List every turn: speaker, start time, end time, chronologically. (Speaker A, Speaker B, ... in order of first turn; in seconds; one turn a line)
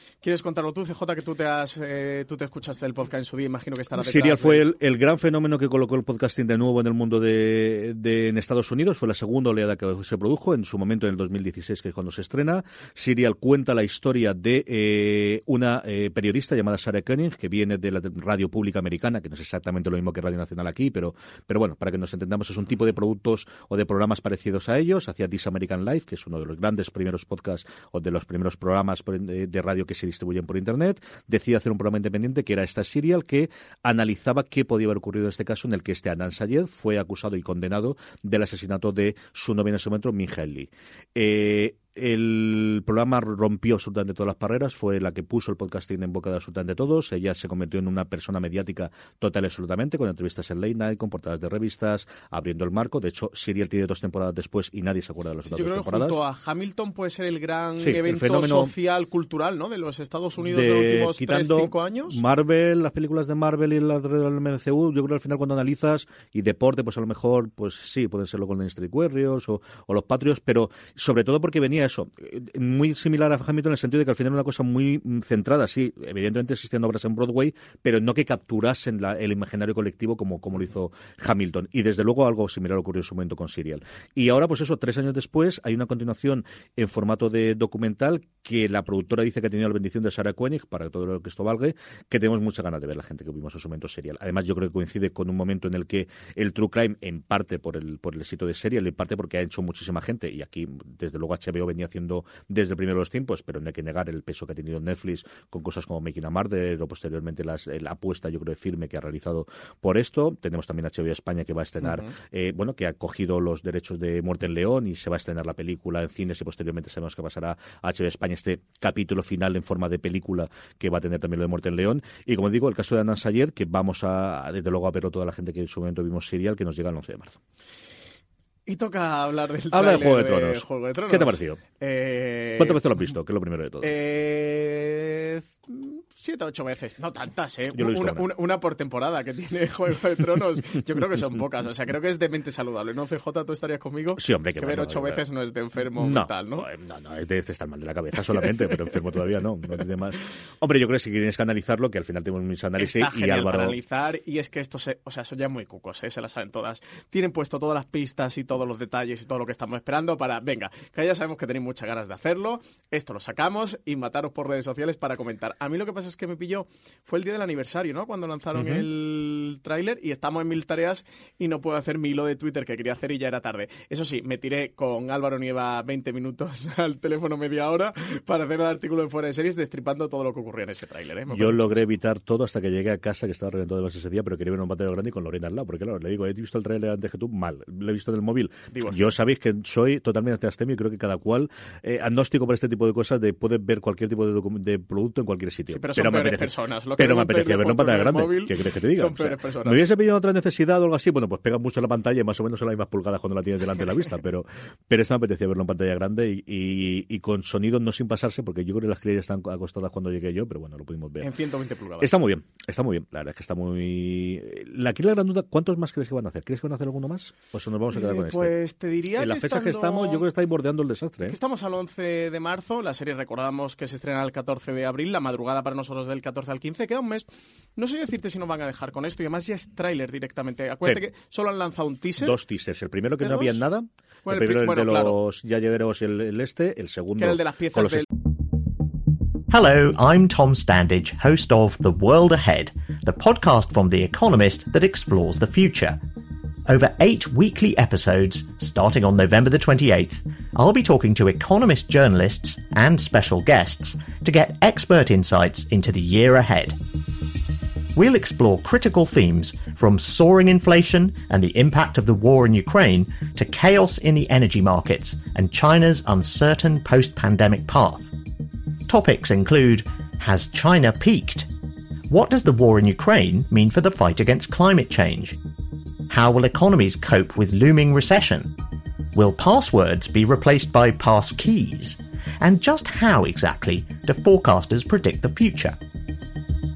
Speaker A: 0.2-4.7
Speaker B: 3.9-56.2
Speaker A: 55.5-62.2
Speaker B: 57.8-58.7
Speaker B: 60.4-127.4
Speaker A: 111.8-112.1
Speaker A: 128.7-132.8
Speaker B: 129.7-131.6
Speaker B: 132.6-134.0
Speaker A: 133.8-146.7
Speaker B: 137.7-138.3
Speaker B: 144.2-145.2
Speaker B: 145.9-153.8
Speaker A: 152.8-181.8
Speaker B: 168.5-168.9
Speaker B: 181.3-211.3
Speaker A: 188.7-189.0
Speaker A: 195.7-199.8
Speaker A: 211.2-212.1
Speaker B: 212.0-218.5
Speaker A: 217.9-220.2
Speaker B: 219.2-221.4
Speaker A: 221.2-232.3
Speaker B: 232.2-238.1
Speaker A: 233.2-233.6
Speaker A: 234.2-235.2
Speaker A: 237.2-238.1
Speaker C: 239.5-246.0
Speaker C: 246.7-256.8
Speaker C: 257.9-268.1
Speaker C: 268.9-271.5
Speaker C: 272.1-275.4
Speaker C: 276.1-278.5
Speaker C: 279.1-285.8